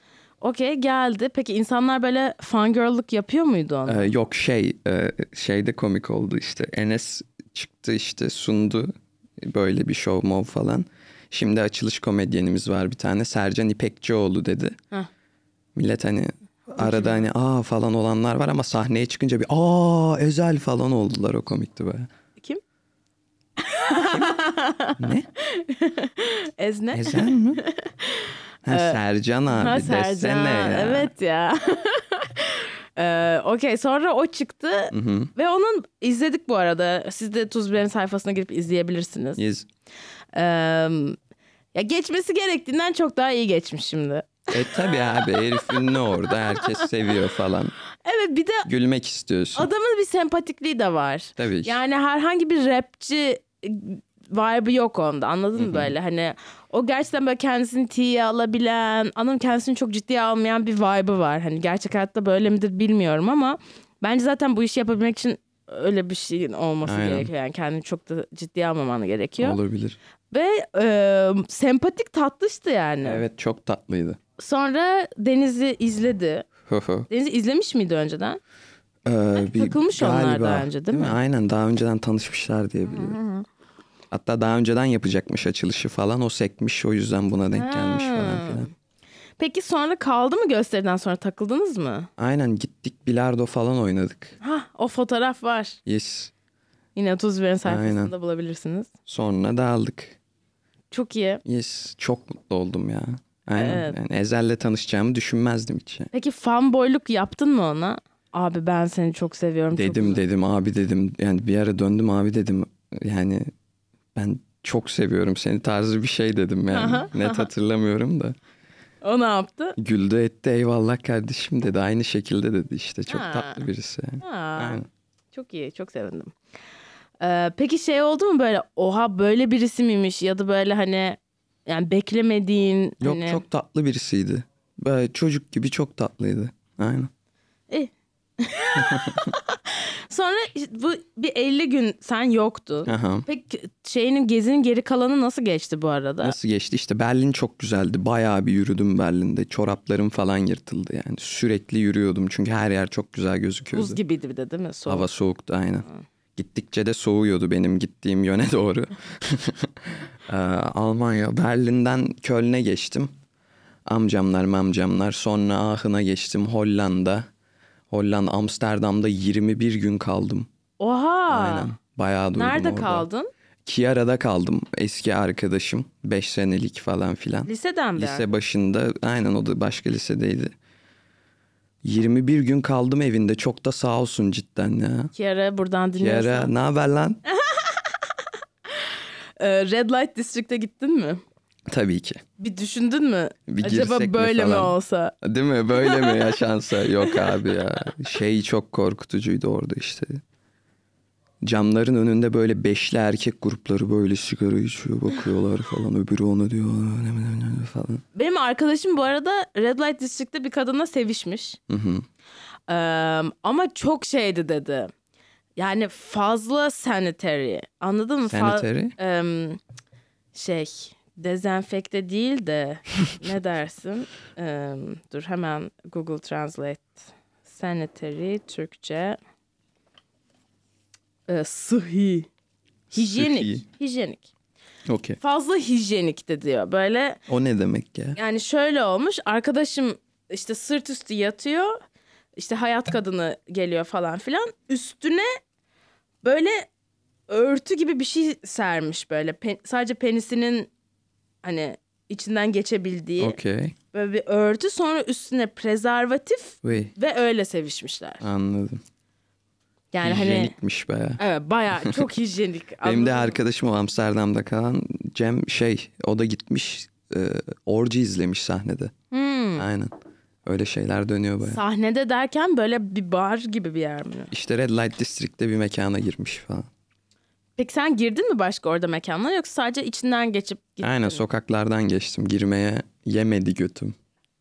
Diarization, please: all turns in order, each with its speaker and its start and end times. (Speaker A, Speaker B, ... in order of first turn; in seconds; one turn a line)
Speaker A: 0.4-4.1
Speaker B: 3.9-14.8
Speaker B: 15.7-22.1
Speaker A: 16.8-17.2
Speaker A: 23.6-29.0
Speaker B: 24.0-24.3
Speaker B: 25.0-25.3
Speaker B: 26.9-27.6
Speaker B: 28.6-31.1
Speaker A: 29.5-39.4
Speaker B: 34.9-35.3
Speaker B: 39.4-39.7
Speaker A: 40.3-41.2
Speaker A: 41.7-46.9
Speaker B: 44.5-47.7
Speaker A: 48.0-48.7
Speaker B: 48.6-49.7
Speaker A: 49.5-69.6
Speaker B: 51.4-51.8
Speaker B: 55.6-55.9
Speaker B: 66.8-67.3
Speaker B: 69.4-70.0
Speaker A: 70.3-73.2
Speaker B: 73.0-74.2
Speaker A: 74.4-76.5
Speaker B: 76.7-77.1
Speaker A: 77.1-78.4
Speaker B: 79.0-83.2
Speaker A: 79.5-81.2
Speaker A: 82.9-83.5
Speaker B: 84.1-88.7
Speaker A: 87.5-88.7
Speaker A: 89.4-92.1
Speaker B: 92.2-94.3
Speaker A: 94.4-95.8
Speaker B: 95.8-96.3
Speaker A: 97.0-98.9
Speaker B: 97.6-98.1
Speaker B: 99.1-100.2
Speaker A: 100.9-101.4
Speaker B: 101.4-106.1
Speaker A: 103.5-104.0
Speaker A: 106.1-110.2
Speaker B: 109.7-113.5
Speaker B: 114.1-118.3
Speaker A: 116.7-117.5
Speaker A: 119.0-119.8
Speaker B: 119.8-124.8
Speaker A: 123.1-123.6
Speaker A: 124.2-124.8
Speaker A: 125.3-126.3
Speaker A: 127.2-133.4
Speaker B: 133.0-137.1
Speaker A: 137.7-146.3
Speaker B: 138.8-139.3
Speaker B: 142.8-143.3
Speaker B: 146.2-154.0
Speaker A: 153.7-155.1
Speaker B: 154.9-163.1
Speaker B: 163.8-167.2
Speaker B: 167.9-170.5
Speaker A: 170.8-171.7
Speaker B: 171.3-173.1
Speaker A: 172.3-173.3
Speaker B: 173.7-180.5
Speaker A: 177.4-178.2
Speaker B: 181.8-185.1
Speaker A: 185.1-186.5
Speaker B: 186.0-187.2
Speaker A: 187.3-191.2
Speaker B: 191.7-192.2
Speaker A: 192.4-195.1
Speaker B: 193.5-200.2
Speaker A: 195.7-196.4
Speaker A: 197.0-197.5
Speaker B: 201.4-208.0
Speaker A: 208.1-211.6
Speaker B: 211.7-212.0
Speaker A: 212.7-214.9
Speaker A: 215.6-219.6
Speaker B: 218.3-218.9
Speaker A: 220.3-229.2
Speaker A: 231.3-232.3
Speaker B: 232.9-233.6
Speaker A: 232.9-234.3
Speaker B: 234.9-235.2
Speaker A: 235.2-237.2
Speaker B: 237.3-238.2
Speaker A: 238.2-241.8
Speaker A: 242.3-245.3
Speaker A: 246.2-246.7
Speaker A: 247.3-250.7
Speaker A: 251.4-253.4
Speaker B: 253.2-253.8
Speaker A: 253.9-258.2
Speaker B: 256.6-256.9
Speaker B: 258.2-258.8
Speaker A: 259.9-260.5
Speaker B: 260.0-261.2
Speaker A: 261.2-263.4
Speaker B: 262.8-268.9
Speaker A: 269.1-269.6
Speaker B: 269.6-269.9
Speaker B: 270.4-271.6
Speaker A: 271.4-274.3
Speaker B: 274.3-276.7
Speaker A: 277.6-281.2
Speaker B: 280.8-283.9